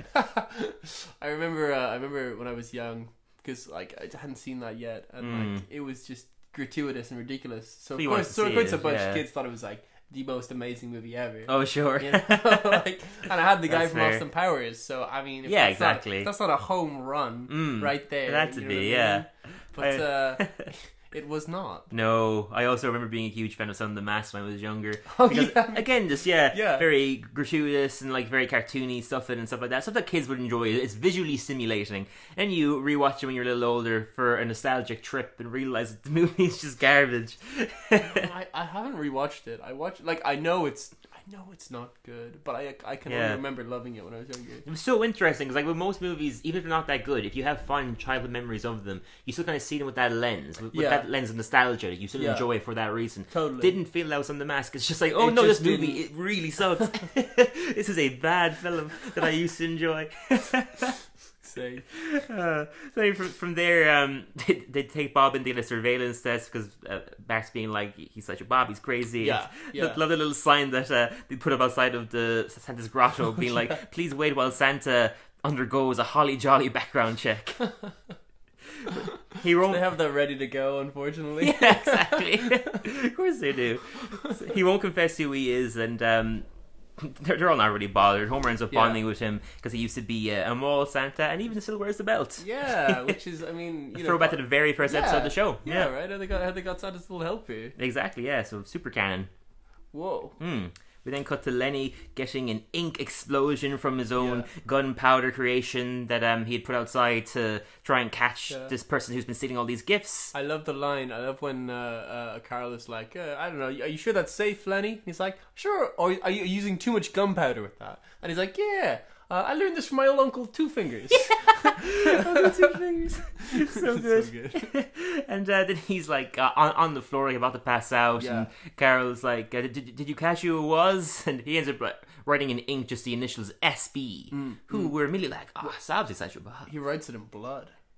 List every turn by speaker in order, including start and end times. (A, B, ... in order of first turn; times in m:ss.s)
0:00.1-0:21.9 A
0:05.2-0:05.6 B
0:08.0-0:09.2 B
0:11.5-0:12.8 B
0:13.7-0:14.2 B
0:15.5-0:16.3 B
0:17.5-0:20.7 B
0:21.9-0:38.3 B
0:25.1-0:25.9 A
0:26.5-0:26.9 A
0:38.0-0:44.7 A
0:43.1-0:43.4 B
0:44.7-1:01.0 B
0:50.7-0:51.1 A
0:52.2-0:52.5 A
0:53.3-0:53.8 A
0:55.2-0:56.0 A
1:01.4-1:01.9 A
1:01.9-1:17.6 B
1:09.2-1:10.0 A
1:18.9-1:19.8 B
1:19.6-1:22.8 A
1:21.4-1:26.5 B
1:27.0-1:33.2 B
1:28.7-1:29.0 A
1:32.4-1:37.8 A
1:34.0-1:35.9 B
1:37.8-1:39.3 B
1:39.9-1:40.4 A
1:40.4-1:50.3 B
1:44.2-1:44.5 A
1:50.3-2:02.7 A
2:01.1-2:16.7 B
2:03.4-2:04.7 A
2:08.2-2:08.5 A
2:14.3-2:14.9 A
2:16.7-2:17.7 A